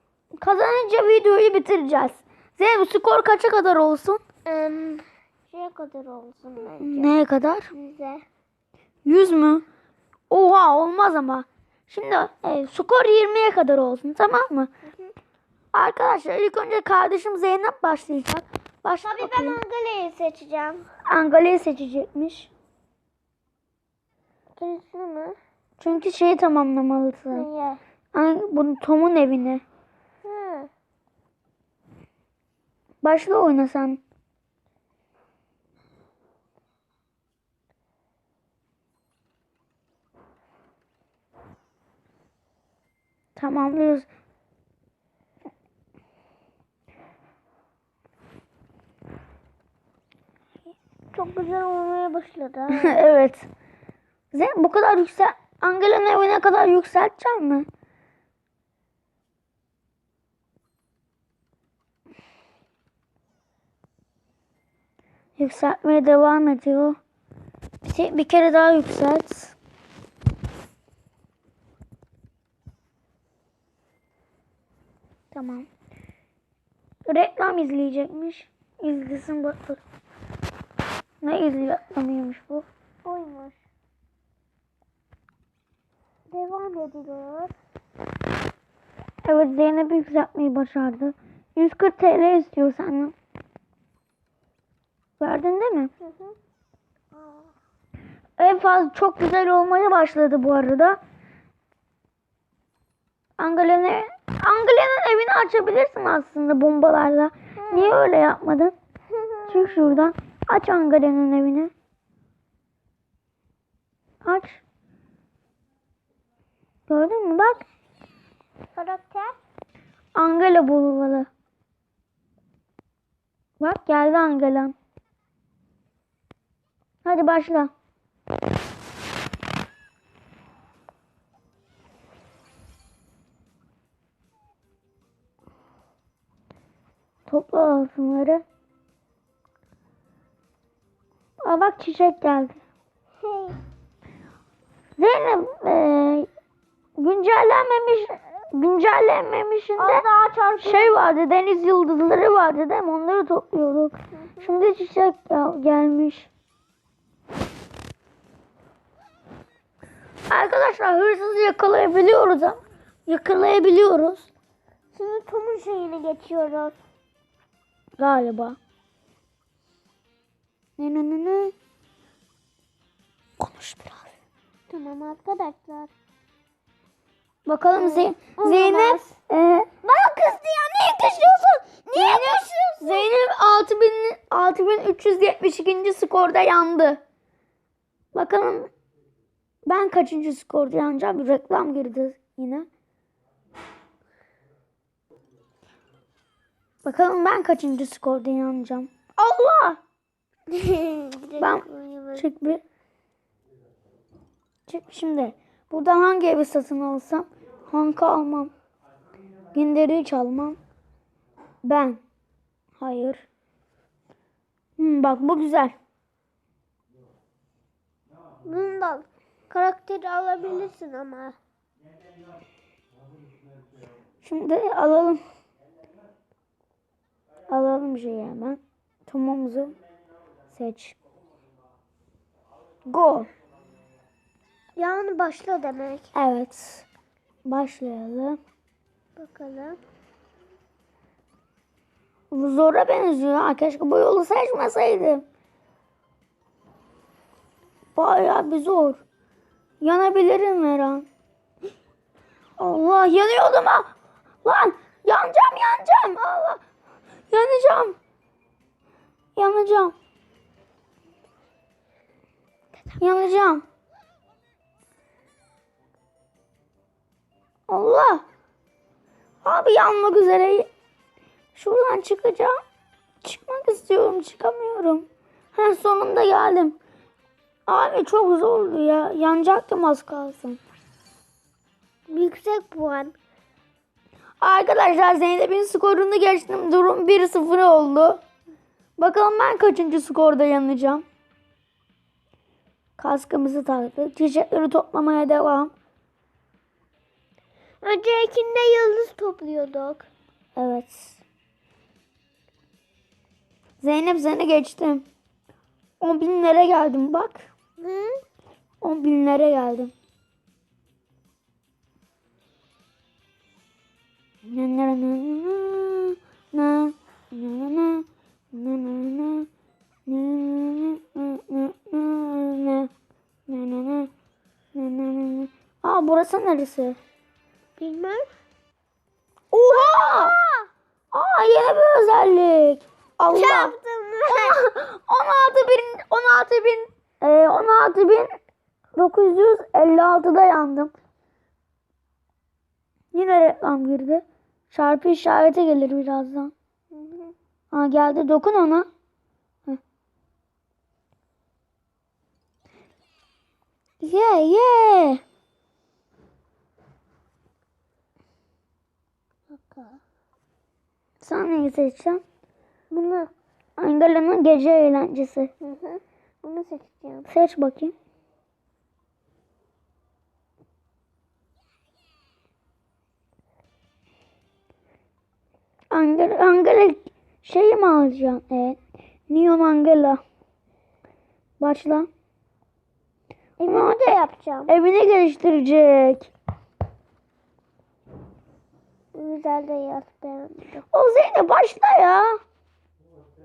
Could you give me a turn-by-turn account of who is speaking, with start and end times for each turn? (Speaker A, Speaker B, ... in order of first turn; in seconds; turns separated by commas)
Speaker A: 0.4-4.2, Speaker B: 4.5-7.1, Speaker A: 6.8-7.7, Speaker B: 7.7-8.2, Speaker A: 9.0-9.6, Speaker A: 10.3-14.7, Speaker A: 15.7-19.6, Speaker B: 19.0-20.8, Speaker A: 21.1-22.5, Speaker B: 24.6-25.4, Speaker A: 25.8-27.4, Speaker B: 27.3-27.8, Speaker A: 28.1-29.6, Speaker B: 30.2-30.7, Speaker A: 33.0-34.0, Speaker A: 43.4-44.1, Speaker B: 51.1-53.0, Speaker A: 52.7-53.5, Speaker A: 54.3-57.7, Speaker A: 65.4-67.0, Speaker A: 67.8-69.5, Speaker A: 75.3-75.7, Speaker A: 77.0-79.8, Speaker A: 81.2-82.7, Speaker B: 83.0-83.6, Speaker B: 86.3-87.5, Speaker A: 89.2-93.1, Speaker A: 95.2-95.9, Speaker B: 96.0-96.3, Speaker A: 98.4-101.0, Speaker A: 103.4-108.7, Speaker B: 107.7-108.0, Speaker B: 109.1-109.8, Speaker A: 109.5-111.7, Speaker A: 114.2-114.6, Speaker A: 116.9-117.7, Speaker B: 118.7-119.4, Speaker A: 120.1-121.3, Speaker A: 123.6-124.7, Speaker A: 127.0-127.7, Speaker A: 137.3-138.4, Speaker A: 141.4-142.6, Speaker B: 143.2-143.6, Speaker A: 145.0-146.3, Speaker A: 147.0-150.0, Speaker B: 149.8-151.0, Speaker A: 150.6-156.3, Speaker B: 154.2-154.5, Speaker A: 160.3-164.3, Speaker B: 164.9-166.8, Speaker A: 168.0-168.6, Speaker A: 170.8-171.5, Speaker A: 173.4-174.1, Speaker B: 174.7-175.9, Speaker A: 177.4-187.0, Speaker B: 177.7-179.2, Speaker B: 181.8-183.1, Speaker A: 188.1-188.7, Speaker A: 189.7-192.7, Speaker A: 196.8-199.8, Speaker B: 200.5-202.3, Speaker A: 201.4-202.6, Speaker A: 204.7-208.5, Speaker A: 209.5-210.6, Speaker A: 211.6-212.0, Speaker A: 212.8-213.2, Speaker A: 214.8-215.7, Speaker B: 218.4-221.4, Speaker A: 224.2-225.2, Speaker A: 227.5-229.8, Speaker A: 230.5-230.9, Speaker A: 232.8-233.3, Speaker B: 234.8-236.1, Speaker A: 236.1-236.8, Speaker A: 237.4-238.4, Speaker B: 239.2-239.8, Speaker A: 242.3-245.2, Speaker A: 247.9-249.0, Speaker A: 249.8-251.1, Speaker A: 252.6-253.9, Speaker A: 254.4-256.6, Speaker A: 257.3-257.9, Speaker A: 259.4-259.9, Speaker A: 263.0-263.6, Speaker A: 267.7-268.2, Speaker A: 269.4-270.7, Speaker A: 271.5-272.5, Speaker A: 273.2-276.8, Speaker A: 277.7-280.6, Speaker B: 282.1-283.1, Speaker A: 284.4-288.2, Speaker A: 289.0-291.0, Speaker A: 293.0-295.7, Speaker B: 297.8-300.1, Speaker A: 300.6-301.2, Speaker A: 303.8-305.0, Speaker A: 306.0-307.5, Speaker B: 307.8-308.2, Speaker A: 308.8-309.9, Speaker A: 314.4-319.5, Speaker A: 320.1-322.9, Speaker A: 323.5-324.1, Speaker A: 324.7-327.0, Speaker B: 327.8-328.3, Speaker A: 329.5-330.3, Speaker B: 329.7-330.7, Speaker A: 331.1-333.7, Speaker B: 333.3-334.6, Speaker A: 334.3-338.3, Speaker A: 338.9-340.9, Speaker A: 343.1-346.5, Speaker B: 346.9-347.3, Speaker A: 347.7-348.9, Speaker A: 354.0-355.2, Speaker B: 359.5-360.0, Speaker A: 361.2-362.2, Speaker B: 362.9-363.3, Speaker A: 363.8-365.5, Speaker B: 365.6-367.3, Speaker A: 367.3-367.9, Speaker A: 375.9-380.2, Speaker A: 381.6-382.1, Speaker B: 383.6-384.7, Speaker A: 383.7-386.3, Speaker B: 389.1-390.8, Speaker A: 390.9-392.4